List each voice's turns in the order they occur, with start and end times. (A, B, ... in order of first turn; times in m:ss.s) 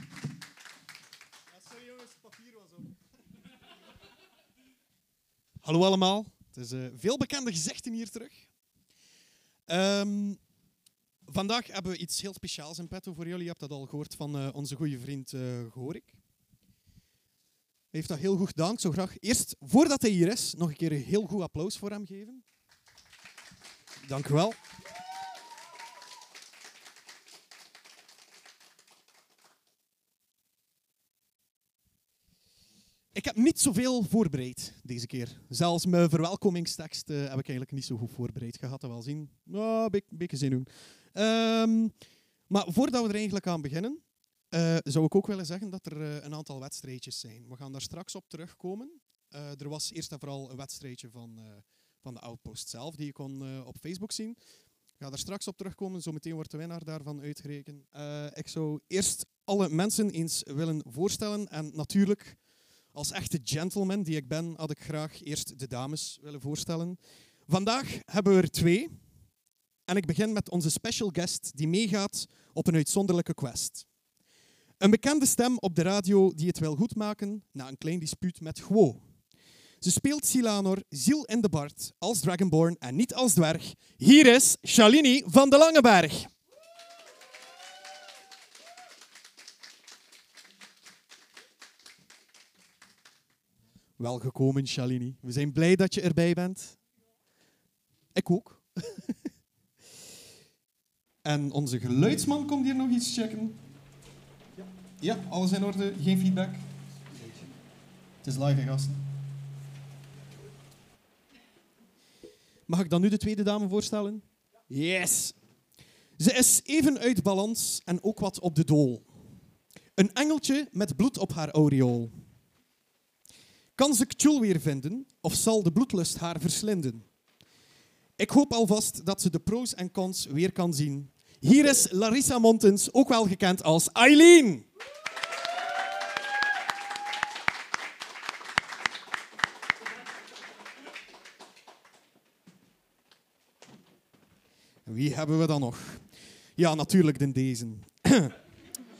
0:01.7-0:02.8 A
0:05.6-0:08.4 A
0:09.7-0:10.4 A
0:11.3-0:16.2 A
0:17.9-0:22.4 A
0:24.0-0:24.6 A
0:33.1-0:41.9 A
0:42.5-0:54.4 A
0:55.0-1:02.4 A
1:02.9-1:08.9 A
1:09.9-1:13.8 A
1:14.8-1:19.0 A
1:19.8-1:26.3 A
1:34.0-1:36.8 A
1:38.1-1:39.2 A
1:41.2-1:43.6 A
1:45.0-1:46.6 A
1:48.2-1:49.0 A
1:52.7-1:55.3 A
1:56.2-1:59.1 A
2:00.0-2:02.1 A
2:03.8-2:07.1 A
2:08.2-2:14.7 A
2:24.8-2:26.0 A
2:26.6-2:28.3 A